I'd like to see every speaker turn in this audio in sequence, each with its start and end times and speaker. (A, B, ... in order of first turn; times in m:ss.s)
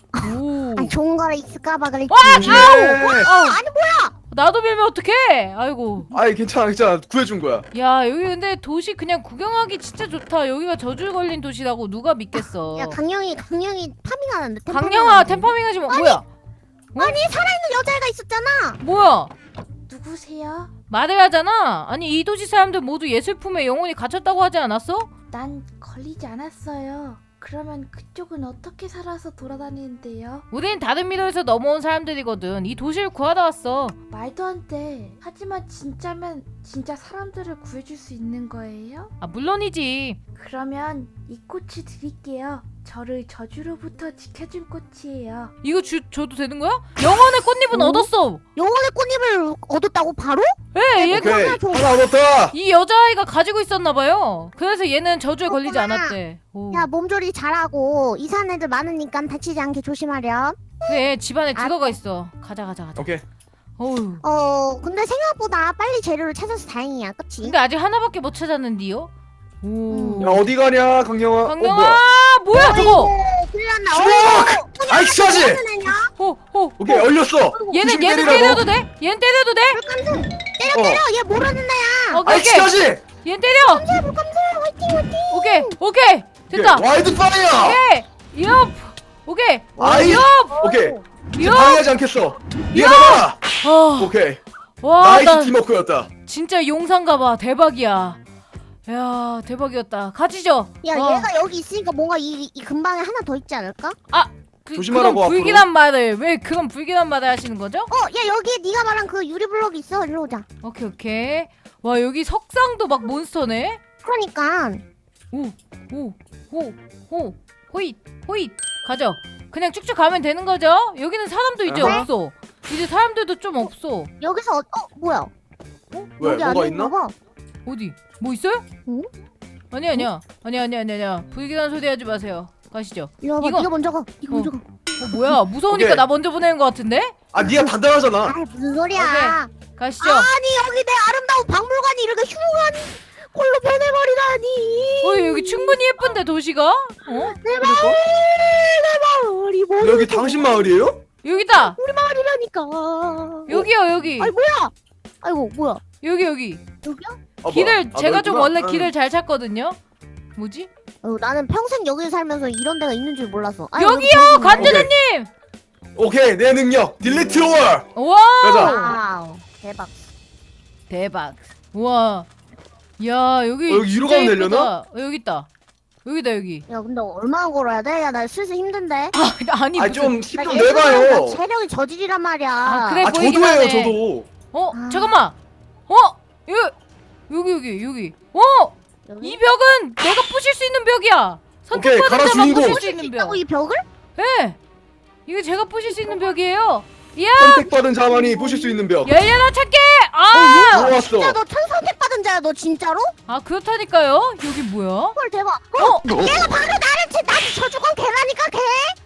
0:00.1-0:04.1 A
0:00.2-0:00.9 B
0:02.1-0:03.6 B
0:02.3-0:03.3 C
0:04.3-0:06.1 B
0:06.1-0:07.7 C
0:07.7-0:13.0 B
0:12.4-0:16.2 A
0:14.7-0:16.2 B
0:17.0-0:18.8 A
0:18.8-0:19.3 B
0:19.9-0:20.7 D
0:20.9-0:25.1 B
0:25.3-0:30.5 D
0:30.5-0:34.0 B
0:34.1-0:39.1 D
0:39.2-0:40.2 B
0:40.4-0:45.5 D
0:45.6-0:48.4 B
0:47.7-0:51.9 A
0:50.7-0:51.6 B
0:51.1-0:52.6 C
0:52.5-0:56.9 B
0:55.5-0:56.2 A
0:56.7-1:01.0 A
1:00.8-1:03.2 B
1:01.6-1:02.0 A
1:03.0-1:03.2 C
1:03.8-1:04.2 B
1:04.2-1:07.6 A
1:07.4-1:09.1 B
1:09.6-1:10.5 B
1:09.9-1:10.3 A
1:10.2-1:12.0 C
1:11.4-1:13.2 B
1:12.5-1:16.1 A
1:13.9-1:15.6 C
1:16.0-1:17.0 B
1:16.8-1:18.6 C
1:17.7-1:19.8 B
1:18.2-1:18.6 A
1:19.7-1:22.2 A
1:20.7-1:21.0 C
1:22.1-1:23.9 B
1:22.2-1:23.0 C
1:23.7-1:25.8 A
1:25.3-1:26.9 B
1:26.5-1:27.8 C
1:27.6-1:30.6 B
1:29.8-1:31.0 A
1:29.8-1:33.4 C
1:31.3-1:31.9 B
1:32.7-1:34.1 B
1:34.0-1:34.4 C
1:34.8-1:35.6 B
1:35.0-1:36.1 C
1:36.3-1:38.2 B
1:38.9-1:41.3 B
1:40.8-1:44.0 A
1:44.1-1:47.9 B
1:44.7-1:45.7 C
1:47.9-1:50.4 A
1:50.6-1:53.8 B
1:54.0-1:54.8 A
1:55.3-2:04.1 B
2:01.7-2:02.1 C
2:01.8-2:02.1 A
2:04.2-2:05.3 A
2:05.9-2:07.1 A
2:06.2-2:06.9 C
2:07.6-2:08.6 B
2:09.7-2:13.7 B
2:13.2-2:15.1 A
2:14.3-2:17.2 B
2:15.7-2:16.0 C
2:17.3-2:18.4 C
2:17.4-2:17.7 A
2:18.2-2:26.1 A
2:18.9-2:20.3 B
2:25.0-2:27.4 B
2:27.1-2:30.7 A
2:27.6-2:28.0 C
2:29.8-2:31.0 C
2:31.2-2:31.8 B
2:31.6-2:33.7 A
2:33.5-2:34.3 B
2:34.2-2:35.8 A
2:36.0-2:36.6 B
2:36.8-2:37.2 A
2:37.4-2:38.9 C
2:37.5-2:39.8 B
2:40.4-2:40.7 B
2:41.0-2:44.9 A
2:43.8-2:45.3 B
2:44.6-2:44.9 C
2:46.0-2:47.8 C
2:47.9-2:49.0 B
2:48.4-2:48.8 C
2:48.6-2:50.1 A
2:50.9-2:52.3 B
2:53.0-2:55.5 B
2:53.7-2:54.7 C
2:56.0-2:56.6 B
2:56.7-2:59.1 A
2:59.1-3:00.2 B
2:59.8-3:01.4 C
3:00.4-3:03.1 A
3:02.6-3:04.0 B
3:03.0-3:04.3 C
3:04.5-3:05.4 B
3:04.7-3:05.2 A
3:05.9-3:06.8 B
3:07.3-3:13.4 B
3:09.1-3:09.4 A
3:11.7-3:12.8 C
3:12.3-3:13.8 A
3:14.2-3:14.6 B
3:15.3-3:17.7 B
3:15.9-3:16.3 A
3:17.4-3:19.1 C
3:18.1-3:18.6 A
3:19.0-3:21.0 B
3:20.3-3:23.1 A
3:20.7-3:21.4 C
3:23.3-3:25.2 B
3:25.2-3:29.0 A
3:25.8-3:26.1 B